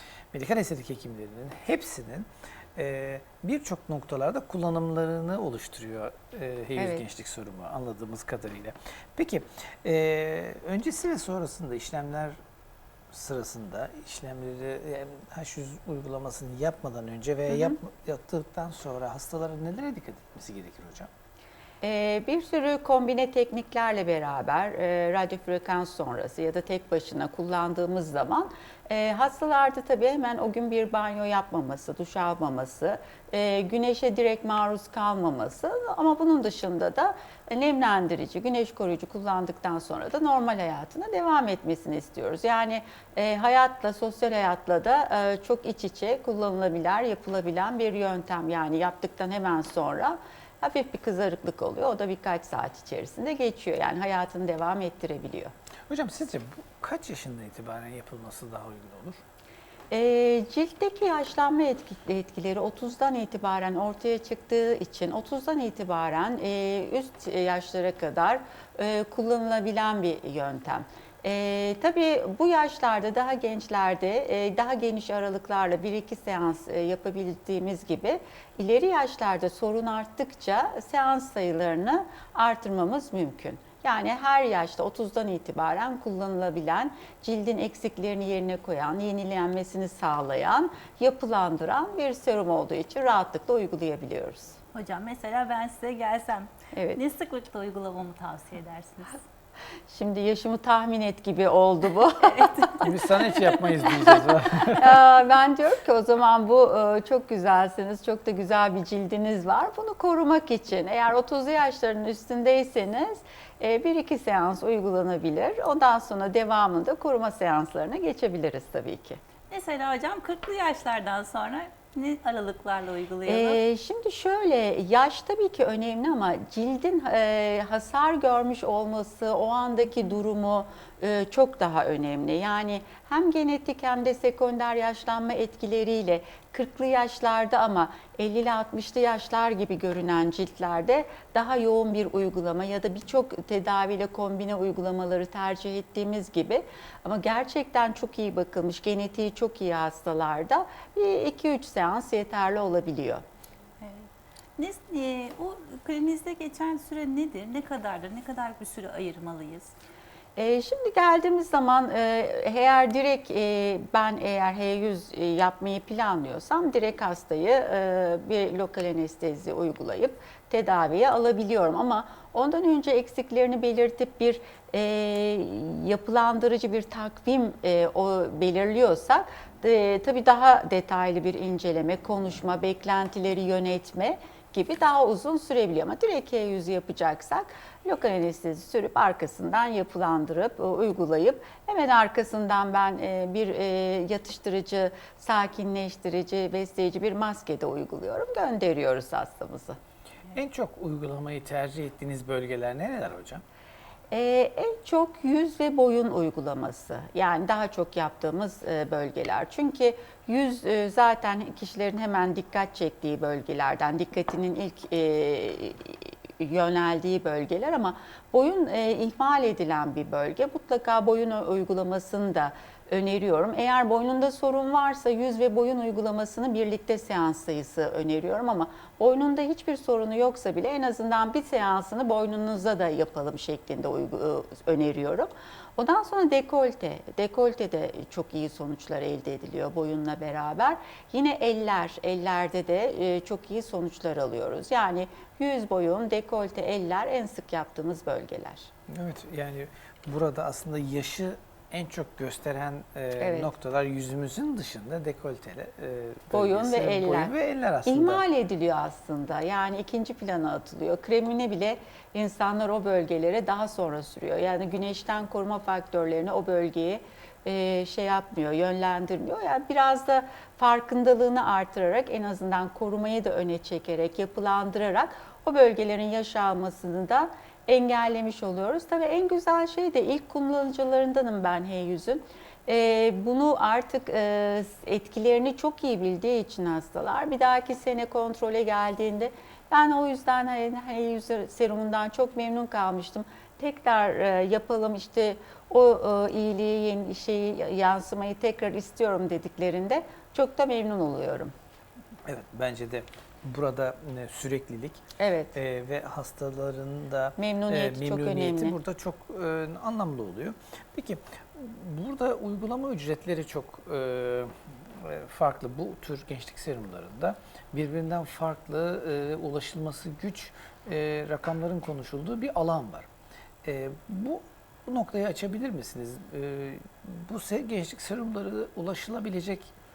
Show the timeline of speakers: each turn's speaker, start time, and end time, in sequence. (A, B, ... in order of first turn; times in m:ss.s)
0:00.3-0:12.4 A
0:06.8-0:07.0 B
0:13.1-0:21.1 A
0:17.5-0:17.8 B
0:21.8-0:55.5 B
0:55.9-0:59.2 A
0:59.9-1:34.6 B
1:34.7-1:39.2 C
1:36.7-1:37.0 B
1:39.9-1:42.8 B
1:42.2-1:42.9 C
1:42.8-1:45.0 A
1:44.7-1:59.2 B
1:59.5-2:03.6 C
2:03.3-2:33.2 B
2:33.8-2:39.7 C
2:40.4-3:19.8 B
3:20.3-3:23.4 A
3:24.1-4:08.7 B
4:08.9-4:18.2 A
4:13.2-4:13.5 B
4:16.3-4:17.3 B
4:17.8-5:01.5 B
5:02.3-5:05.0 A
5:05.2-5:05.6 B
5:05.5-5:23.1 A
5:07.4-5:08.8 B
5:23.6-5:29.7 A